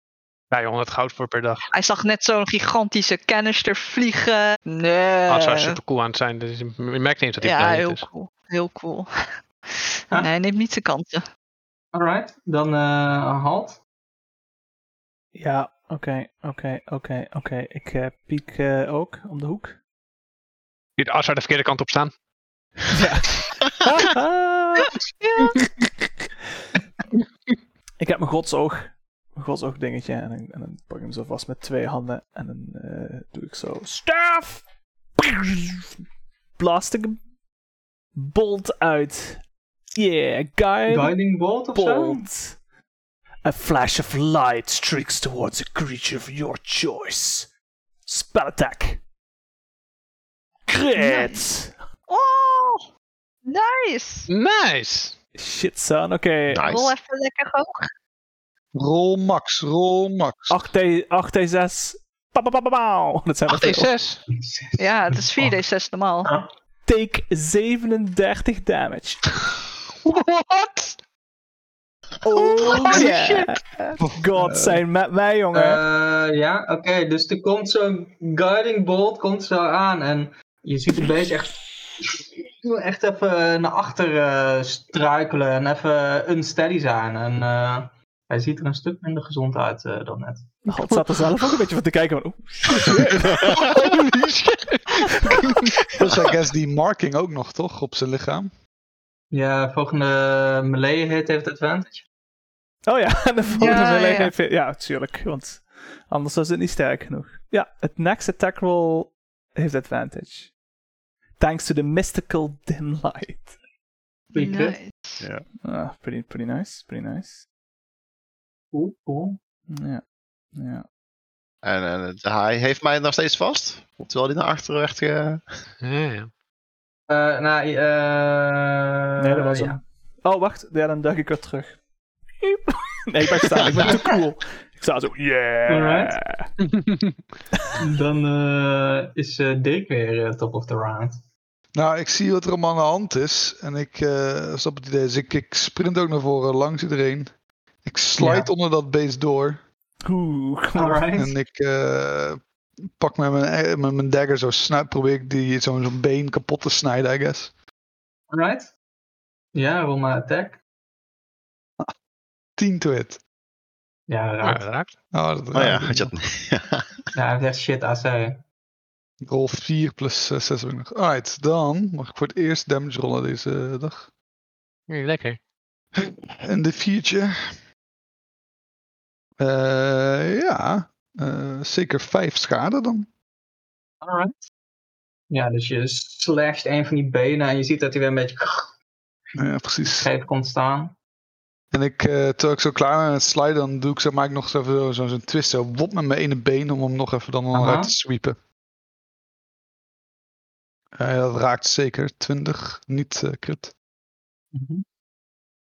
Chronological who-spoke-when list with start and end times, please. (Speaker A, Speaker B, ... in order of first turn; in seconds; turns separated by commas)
Speaker A: 0.5-1.6, Speaker B: 1.7-5.8, Speaker A: 5.3-8.1, Speaker B: 7.4-9.1, Speaker B: 9.7-11.2, Speaker C: 11.9-13.8, Speaker D: 15.3-19.8, Speaker A: 21.0-22.1, Speaker D: 22.9-24.9, Speaker B: 25.2-25.5, Speaker D: 28.0-34.6, Speaker D: 35.2-35.9, Speaker D: 36.6-37.2, Speaker D: 38.1-39.4, Speaker D: 39.9-41.1, Speaker C: 40.9-42.2, Speaker D: 41.7-42.6, Speaker D: 43.4-47.5, Speaker D: 48.1-49.0, Speaker D: 50.7-51.8, Speaker B: 51.0-51.5, Speaker B: 52.1-52.9, Speaker B: 53.5-54.3, Speaker A: 54.3-55.1, Speaker D: 55.4-56.7, Speaker E: 56.5-56.9, Speaker B: 56.7-57.9, Speaker F: 58.8-60.6, Speaker D: 60.5-63.9, Speaker A: 63.5-64.2, Speaker C: 64.3-65.6, Speaker B: 64.8-66.3, Speaker D: 66.9-69.3, Speaker A: 70.0-70.9, Speaker D: 72.2-75.8, Speaker B: 72.7-73.1, Speaker F: 74.0-74.8, Speaker C: 75.5-90.6, Speaker D: 90.7-93.5, Speaker A: 93.4-95.7, Speaker F: 96.0-98.5, Speaker C: 99.3-102.0, Speaker D: 102.9-110.5, Speaker B: 103.6-104.3, Speaker D: 111.4-113.5, Speaker C: 114.3-114.8, Speaker B: 114.3-115.2, Speaker E: 115.2-115.5, Speaker D: 115.6-117.4, Speaker C: 118.7-119.4, Speaker D: 119.7-120.0, Speaker D: 120.5-120.8, Speaker E: 121.6-125.4, Speaker A: 125.8-126.3, Speaker C: 127.1-129.8, Speaker D: 129.2-131.8, Speaker D: 132.4-136.5, Speaker C: 135.7-136.2, Speaker A: 136.6-137.2, Speaker C: 137.8-141.2, Speaker F: 141.8-149.6, Speaker C: 148.2-148.5, Speaker D: 150.1-151.1, Speaker C: 150.8-151.3, Speaker F: 151.2-157.5, Speaker C: 158.3-158.7, Speaker C: 159.5-160.6, Speaker F: 162.6-163.2, Speaker C: 164.1-164.7, Speaker A: 164.4-164.9, Speaker F: 165.1-166.1, Speaker E: 165.5-167.1, Speaker C: 167.2-168.4, Speaker F: 169.2-174.1, Speaker A: 174.9-175.4, Speaker F: 176.0-177.6, Speaker F: 179.4-183.1, Speaker C: 184.0-184.5, Speaker C: 185.3-188.7, Speaker F: 189.4-190.1, Speaker C: 189.8-190.9, Speaker F: 191.7-198.4, Speaker C: 197.5-197.9, Speaker F: 200.9-203.7, Speaker C: 204.5-204.8